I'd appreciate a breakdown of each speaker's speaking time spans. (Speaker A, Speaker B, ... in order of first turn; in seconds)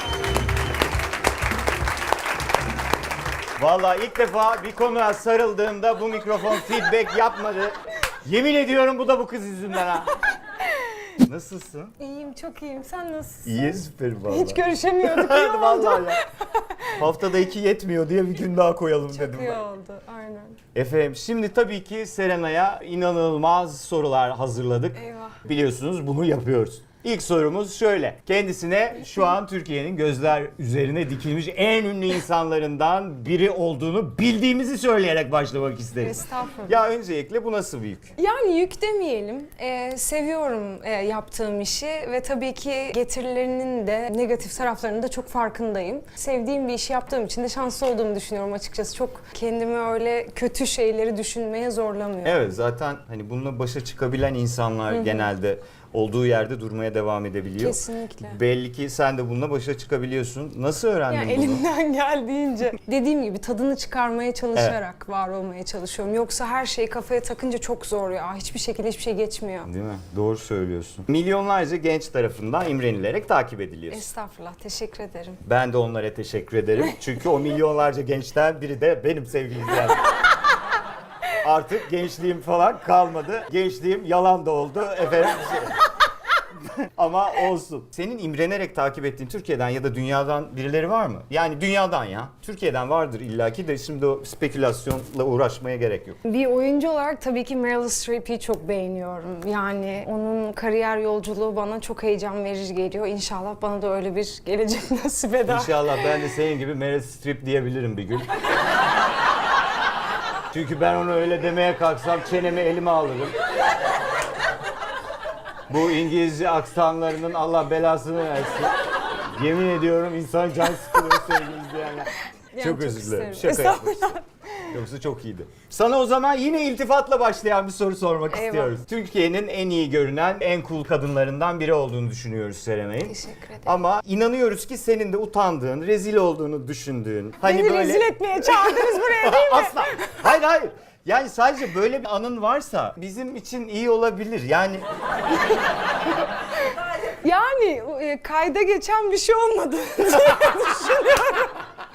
Speaker A: 3.6-10.1, 11.2-12.0, 13.5-16.2, 16.9-19.6, 20.7-38.1, 52.2-61.6, 69.6-74.0, 75.4-80.0, 81.4-85.8, 87.0-96.2, 105.5-108.3, 110.5-113.3, 115.7-118.7, 119.3-144.9
Speaker B: 10.6-11.1, 12.0-17.1, 19.1-20.6, 24.9-25.4, 36.0-36.8, 38.2-52.4, 54.9-55.3, 57.6-58.4, 61.1-69.7, 73.9-75.4, 96.2-106.3, 122.3-124.8, 128.3-128.8, 133.1-133.8, 137.4-140.3, 146.7-151.6